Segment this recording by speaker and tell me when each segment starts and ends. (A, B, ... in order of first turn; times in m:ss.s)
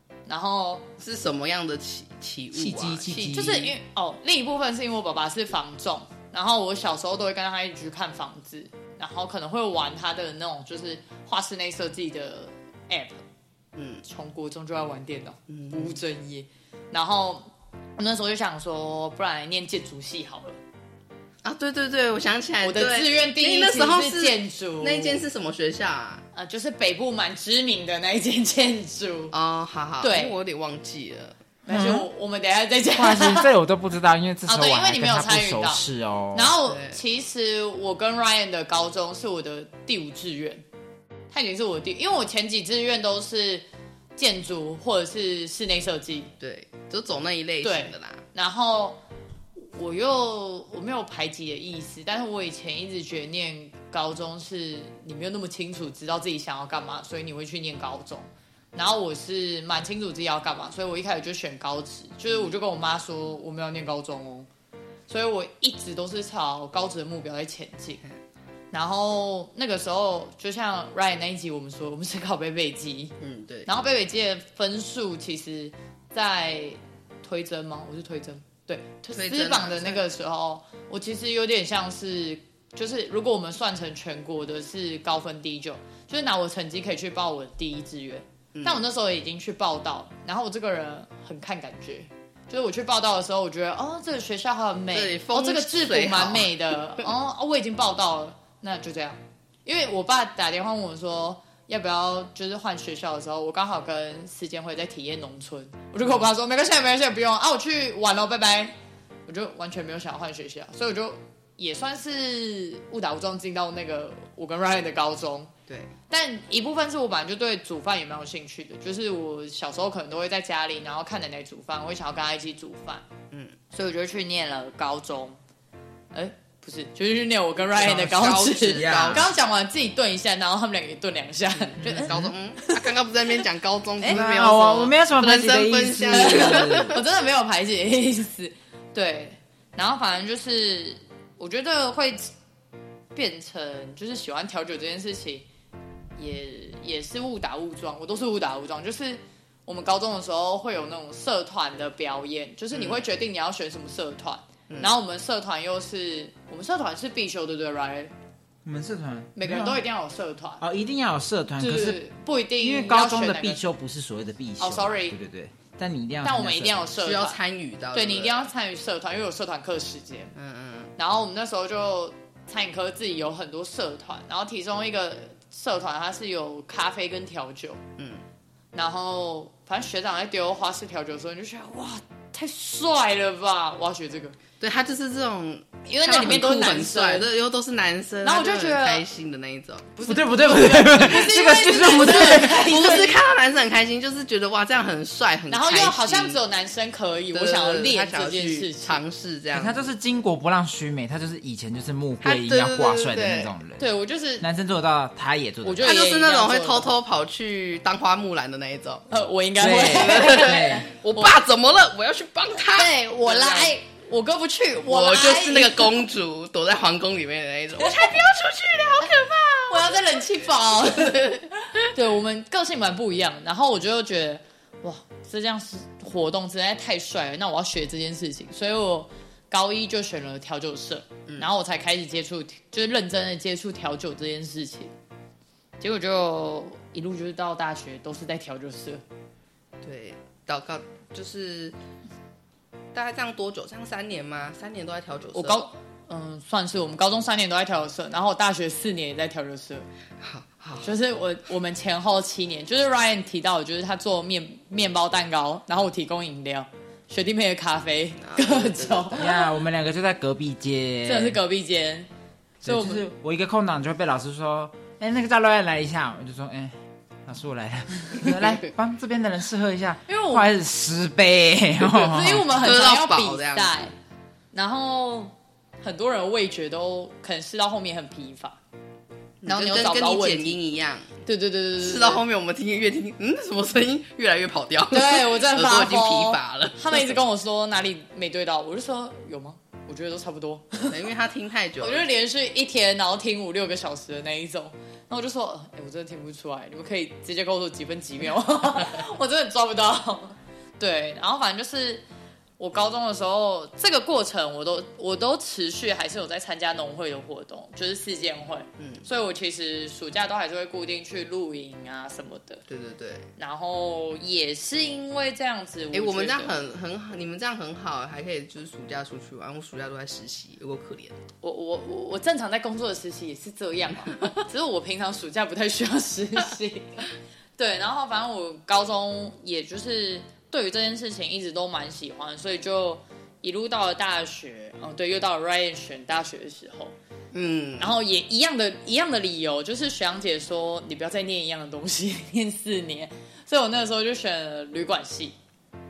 0:00.2-0:00.8 A
0:01.0-0:03.6 B
0:02.5-0:03.7 C
0:03.3-0:13.2 A
0:13.7-0:14.0 B
0:14.0-0:20.6 A
0:15.5-0:16.0 B
0:21.4-0:26.2 B
0:22.6-0:25.2 A
0:26.3-0:29.3 A
0:29.3-0:31.4 B
0:30.0-0:30.4 A
0:31.6-0:33.5 A
0:31.7-0:32.1 C
0:32.9-0:36.5 C
0:34.4-0:40.6 A
0:36.6-0:37.0 B
0:41.3-0:43.6 A
0:44.2-0:46.3 A
0:46.4-0:48.2 B
0:47.6-0:49.0 A
0:49.6-1:04.5 A
1:02.3-1:02.6 B
1:05.1-1:08.0 A
1:08.7-1:13.1 A
1:13.2-1:13.7 B
1:13.6-1:48.7 A
1:19.1-1:20.0 B
1:28.5-1:28.8 B
1:34.9-1:36.8 B
1:49.3-1:55.5 A
1:56.1-2:03.0 A
2:03.7-2:05.4 A
2:06.1-2:12.9 A
2:07.7-2:09.3 B
2:08.7-2:09.3 C
2:11.7-2:17.0 B
2:12.0-2:12.3 C
2:14.0-2:17.0 C
2:16.1-2:22.3 A
2:23.1-2:25.4 A
2:26.2-2:38.1 A
2:32.7-2:33.0 B
2:34.7-2:35.0 B
2:38.6-2:39.8 C
2:39.4-2:40.6 A
2:40.6-2:42.0 C
2:41.6-2:43.6 A
2:42.6-2:46.8 C
2:44.6-2:45.2 A
2:46.2-2:47.4 A
2:47.0-2:48.4 B
2:47.9-2:50.3 A
2:50.3-2:50.9 B
2:51.0-2:57.8 A
2:58.0-2:58.2 B
2:58.7-3:04.4 A
3:04.6-3:09.9 B
3:05.8-3:07.3 A
3:08.2-3:09.0 A
3:09.9-3:13.2 A
3:10.0-3:13.0 C
3:12.0-3:16.4 B
3:15.5-3:19.0 A
3:17.3-3:19.9 B
3:19.5-3:23.8 C
3:22.2-3:23.5 B
3:23.8-3:24.4 A
3:24.4-3:25.9 C
3:25.6-3:26.9 A
3:25.8-3:29.0 B
3:29.1-3:31.4 A
3:29.6-3:30.9 C
3:29.8-3:33.7 B
3:32.7-3:36.0 A
3:34.8-3:39.9 B
3:37.8-3:38.1 A
3:39.7-3:54.9 A
3:40.9-3:41.4 B
3:55.8-3:59.0 A
3:59.8-4:01.8 B
4:02.9-4:05.6 B
4:05.3-4:09.9 A
4:10.2-4:10.9 B
4:10.8-4:19.4 A
4:18.2-4:19.3 B
4:19.1-4:21.4 C
4:21.0-4:22.1 A
4:22.6-4:32.5 C
4:22.6-4:23.1 A
4:30.1-4:30.5 A
4:31.8-4:33.9 A
4:32.5-4:33.8 B
4:34.5-4:38.6 A
4:39.4-4:41.1 B
4:39.4-4:40.6 A
4:41.2-4:42.2 A
4:41.8-4:47.2 B
4:44.9-4:51.0 A
4:50.9-4:52.0 B
4:51.8-5:02.0 A
5:02.6-5:12.6 A
5:08.8-5:09.0 B
5:12.7-5:13.3 B
5:13.4-5:16.5 A
5:15.9-5:21.2 B
5:21.4-5:36.9 A
5:37.3-5:37.9 B
5:37.8-5:45.4 A